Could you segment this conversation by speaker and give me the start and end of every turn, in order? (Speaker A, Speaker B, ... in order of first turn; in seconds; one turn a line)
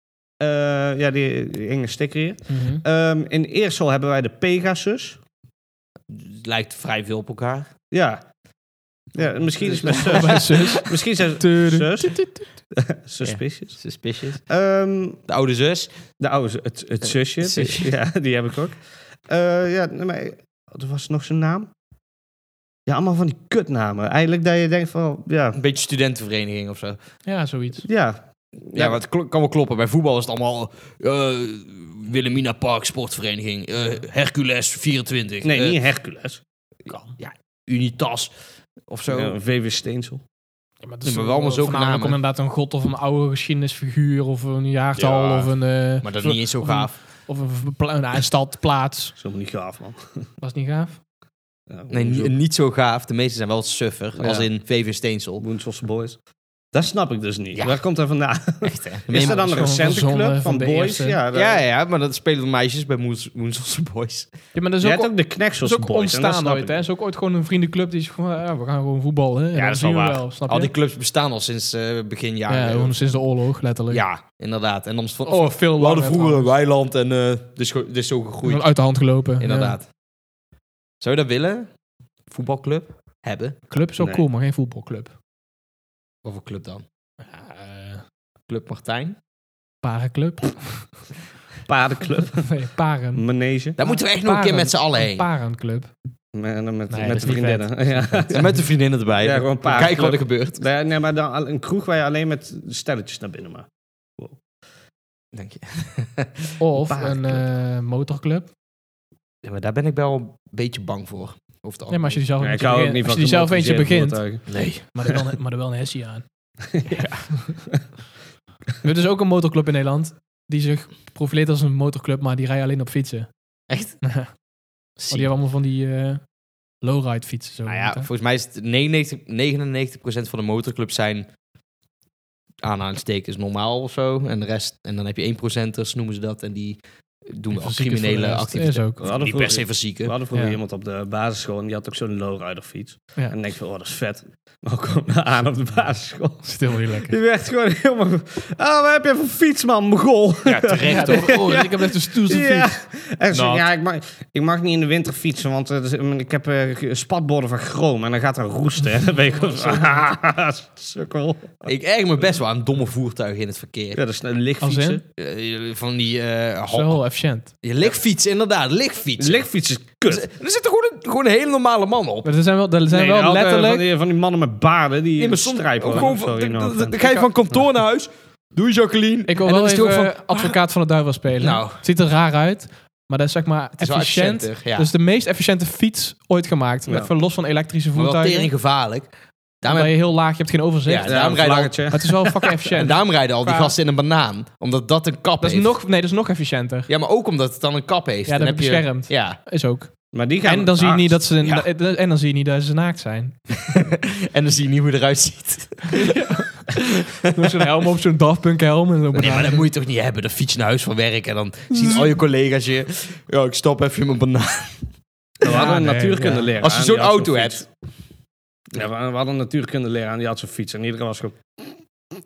Speaker A: 0.4-5.2
Speaker B: 2.5-2.8
Speaker C: 6.1-7.7
Speaker A: 7.9-8.2
Speaker A: 9.1-13.8
Speaker C: 9.5-10.8
Speaker B: 9.8-12.4
Speaker C: 13.2-14.4
Speaker A: 14.5-15.2
Speaker C: 15.3-15.9
Speaker A: 16.2-21.7
Speaker C: 17.4-17.9
Speaker A: 22.9-25.6
Speaker C: 25.5-27.0
Speaker B: 27.3-27.9
Speaker A: 27.9-29.0
Speaker C: 28.8-35.8
Speaker A: 35.4-36.4
Speaker C: 36.9-38.3
Speaker C: 38.9-39.4
Speaker A: 39.1-40.2
Speaker B: 40.8-49.2
Speaker C: 41.0-42.2
Speaker C: 45.0-47.0
Speaker A: 49.2-50.3
Speaker B: 50.4-51.0
Speaker A: 51.7-52.4
Speaker C: 51.9-55.4
Speaker A: 54.2-54.5
Speaker A: 55.4-56.2
Speaker A: 56.7-61.6
Speaker C: 57.5-57.8
Speaker C: 58.6-59.5
Speaker B: 59.1-61.2
Speaker C: 61.3-64.3
Speaker B: 64.5-70.7
Speaker A: 64.8-66.8
Speaker C: 69.5-73.0
Speaker B: 72.5-74.0
Speaker C: 73.9-78.8
Speaker B: 75.2-76.5
Speaker B: 78.4-79.8
Speaker C: 79.4-79.9
Speaker C: 81.0-81.7
Speaker C: 82.3-83.6
Speaker B: 83.7-85.1
Speaker A: 84.0-84.2
Speaker C: 86.2-86.8
Speaker B: 87.2-88.0
Speaker C: 88.5-89.2
Speaker B: 89.8-91.1
Speaker A: 91.7-92.5
Speaker B: 92.5-93.3
Speaker A: 93.1-93.8
Speaker C: 93.8-95.3
Speaker B: 93.8-95.9
Speaker A: 96.3-98.6
Speaker B: 96.9-98.2
Speaker C: 98.3-100.6
Speaker A: 99.2-104.4
Speaker C: 105.3-106.6
Speaker B: 106.6-108.5
Speaker C: 109.4-112.2
Speaker B: 111.9-117.4
Speaker A: 112.4-114.5
Speaker C: 114.5-114.8
Speaker A: 116.7-117.0
Speaker B: 118.8-124.3
Speaker C: 123.7-124.0
Speaker C: 125.0-125.3
Speaker B: 125.1-128.1
Speaker C: 127.7-131.3
Speaker C: 132.6-140.1
Speaker B: 137.5-139.0
Speaker A: 139.0-161.7
Speaker B: 140.3-140.6
Speaker B: 146.4-147.1
Speaker C: 150.4-151.7
Speaker B: 150.8-152.8
Speaker B: 153.3-153.6
Speaker C: 161.7-164.0
Speaker A: 163.9-165.0
Speaker B: 164.6-165.0
Speaker C: 165.2-169.5
Speaker B: 166.7-167.5
Speaker A: 169.2-170.3
Speaker C: 170.1-172.3
Speaker B: 172.2-173.8
Speaker A: 172.9-177.0
Speaker C: 175.2-180.6
Speaker B: 179.3-188.5
Speaker C: 181.4-181.8
Speaker C: 183.8-184.9
Speaker C: 187.9-190.0
Speaker B: 189.7-193.8
Speaker C: 190.8-191.9
Speaker A: 191.0-192.4
Speaker C: 192.7-195.8
Speaker B: 195.4-196.9
Speaker C: 196.9-199.4
Speaker B: 198.3-203.8
Speaker A: 200.1-201.2
Speaker C: 201.4-201.7
Speaker C: 203.7-207.7
Speaker B: 205.9-209.7
Speaker C: 209.1-214.9
Speaker B: 211.7-212.1
Speaker A: 215.4-217.7
Speaker B: 215.4-216.5
Speaker C: 215.4-217.7
Speaker A: 218.7-221.7